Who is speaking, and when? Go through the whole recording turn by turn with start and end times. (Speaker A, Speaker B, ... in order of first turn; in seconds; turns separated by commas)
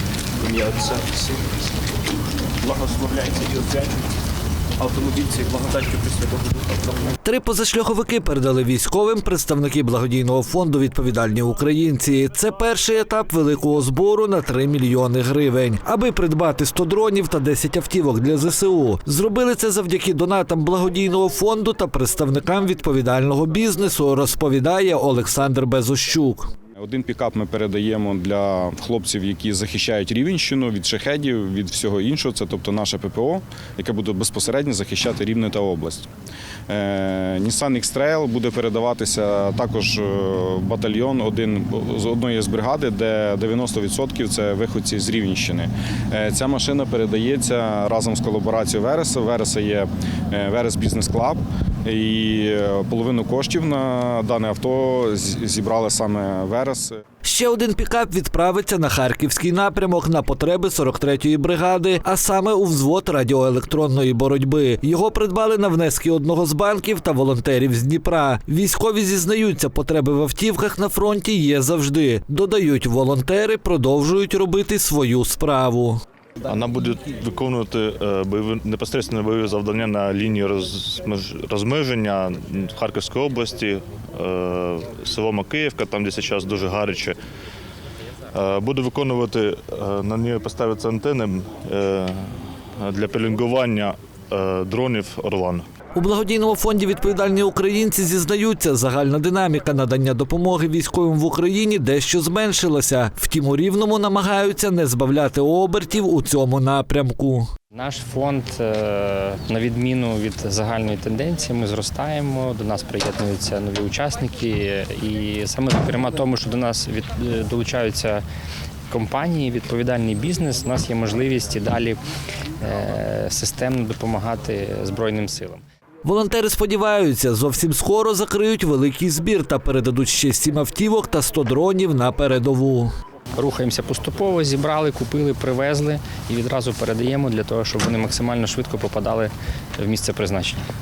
Speaker A: 0.4-1.6, Speaker A: 2.6-4.1, Speaker A: 4.8-7.1, Speaker B: 7.2-26.5, Speaker C: 26.8-36.1, Speaker C: 36.7-57.0, Speaker B: 57.2-76.0, Speaker D: 76.4-87.2, Speaker D: 88.3-95.6, Speaker B: 95.9-107.5, Speaker E: 107.7-118.2, Speaker E: 118.9-122.0, Speaker E: 122.6-125.6, Speaker B: 126.0-132.9, Speaker E: 133.3-140.6